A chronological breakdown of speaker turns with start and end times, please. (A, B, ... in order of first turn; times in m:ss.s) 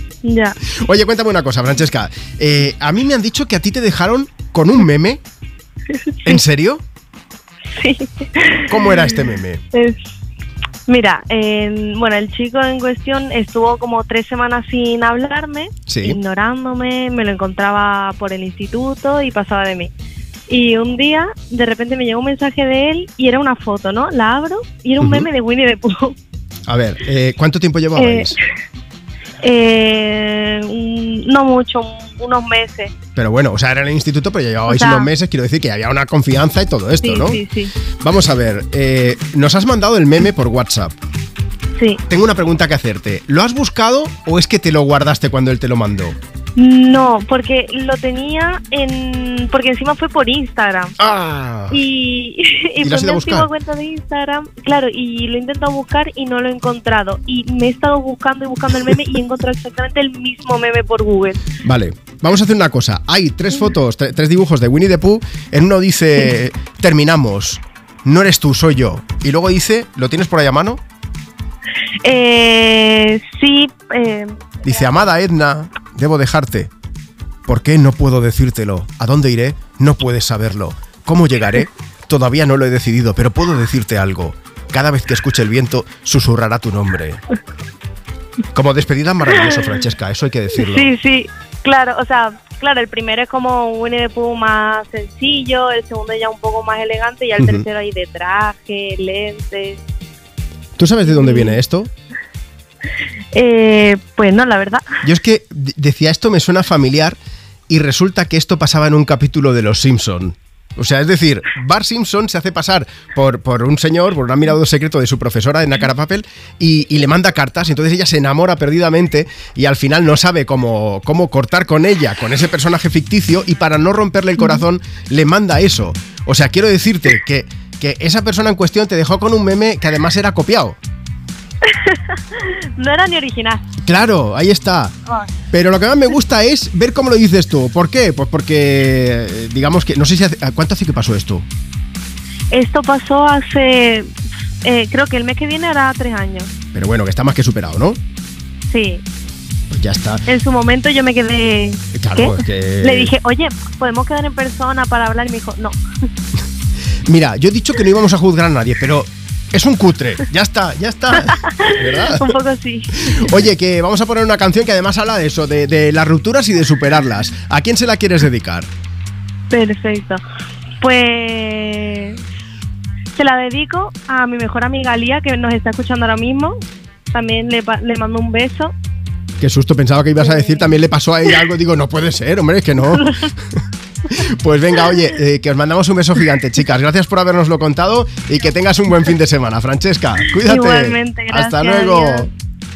0:00.2-0:00.6 A
0:00.6-0:05.2 B
0:05.9-0:06.4 A
0:06.2-0:06.8 B
0:07.8-0:10.0 A
0:08.7-0:09.6 B
0:10.9-0:19.9 A
0:15.9-0:16.2 B
0:20.5-0:26.2 A
0:25.0-0:25.3 B
0:26.7-0:28.4 B
0:28.0-0:28.4 A
0:29.4-0:32.9 A
0:33.2-0:37.4 B
0:34.7-0:35.1 A
0:37.0-0:37.7 A
0:38.0-0:40.9 B
0:41.8-0:42.0 A
0:42.1-0:46.2 B
0:46.6-0:51.0 A
0:51.0-0:51.8 B
0:51.7-1:01.4 A
0:52.8-0:53.5 B
1:01.6-1:10.8 B
1:12.0-1:15.0 A
1:14.6-1:16.7 B
1:17.5-1:27.2 B
1:28.5-1:30.9 B
1:30.6-1:39.8 A
1:37.4-1:37.6 B
1:40.8-1:41.9 B
1:41.1-1:41.6 A
1:43.3-1:44.9 A
1:45.0-1:47.2 B
1:47.7-2:10.8 B
2:04.4-2:04.6 A
2:11.6-2:13.6 A
2:13.9-2:15.0 B
2:15.5-2:21.5 B
2:22.5-2:24.1 A
2:24.6-2:26.5 A
2:26.7-2:28.0 B
2:28.7-2:29.0 A
2:29.7-2:30.2 B
2:30.3-2:35.8 A
2:31.9-2:33.1 B
2:37.1-2:42.4 B
2:41.2-2:43.3 A
2:43.0-2:48.7 B
2:49.5-2:50.2 A
2:50.8-2:52.2 A
2:53.1-2:56.6 A
2:57.1-2:58.7 A
2:59.4-3:03.1 B
3:00.2-3:00.7 A
3:02.9-3:03.3 A
3:04.1-3:12.3 B
3:10.4-3:12.3 A